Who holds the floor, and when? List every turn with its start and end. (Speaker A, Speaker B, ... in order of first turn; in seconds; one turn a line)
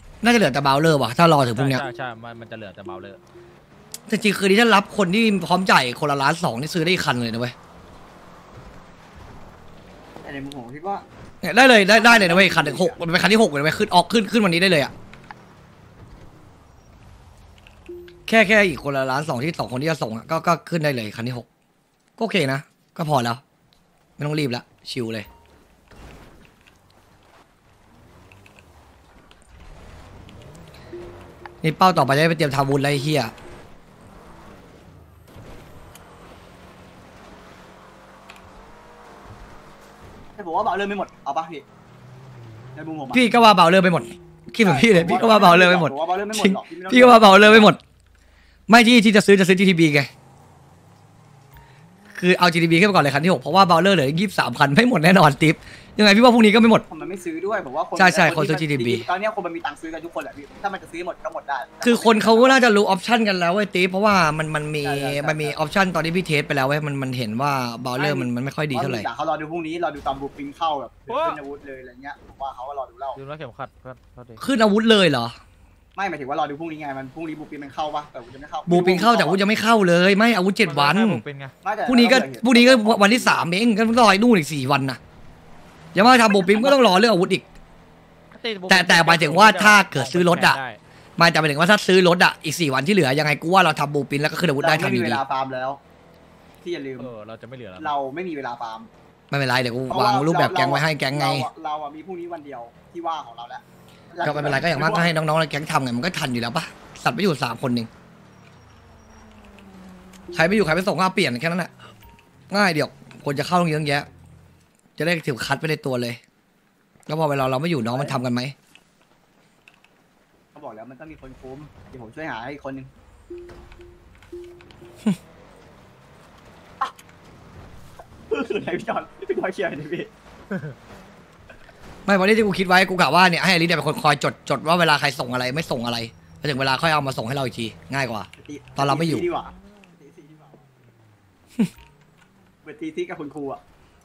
Speaker A: 0.2-1.8
Speaker B: 1.5-3.2
Speaker A: 4.1-7.5
Speaker C: 10.2-11.0
Speaker A: 11.4-14.9
Speaker C: 11.8-13.0
Speaker A: 18.3-21.4
Speaker A: 22.2-23.4
Speaker A: 24.2-25.3
Speaker A: 31.6-33.3
Speaker C: 40.4-41.6
Speaker C: 42.7-43.2
Speaker A: 43.1-47.8
Speaker C: 44.6-47.7
Speaker B: 45.1-45.5
Speaker A: 48.7-50.1
Speaker A: 52.1-56.8
Speaker C: 56.9-62.6
Speaker A: 57.9-59.1
Speaker A: 61.8-69.0
Speaker C: 64.8-65.6
Speaker C: 68.0-73.2
Speaker B: 71.1-71.4
Speaker B: 73.1-74.4
Speaker A: 74.4-75.4
Speaker C: 75.9-79.4
Speaker A: 78.7-81.2
Speaker B: 80.6-81.5
Speaker C: 81.6-83.4
Speaker A: 81.8-85.0
Speaker A: 85.9-87.5
Speaker C: 86.0-86.9
Speaker B: 88.3-90.8
Speaker A: 88.7-90.6
Speaker A: 91.2-95.2
Speaker C: 94.6-95.8
Speaker C: 96.6-97.1
Speaker B: 97.0-97.9
Speaker C: 97.8-98.9
Speaker A: 99.3-101.5
Speaker C: 99.9-105.1
Speaker A: 104.2-107.9
Speaker A: 110.3-111.7
Speaker A: 112.5-114.1
Speaker A: 115.0-116.2
Speaker A: 117.1-118.5
Speaker C: 117.8-118.2
Speaker C: 120.5-122.9
Speaker C: 128.3-130.1
Speaker A: 132.1-139.3
Speaker C: 138.4-140.7
Speaker C: 142.6-143.6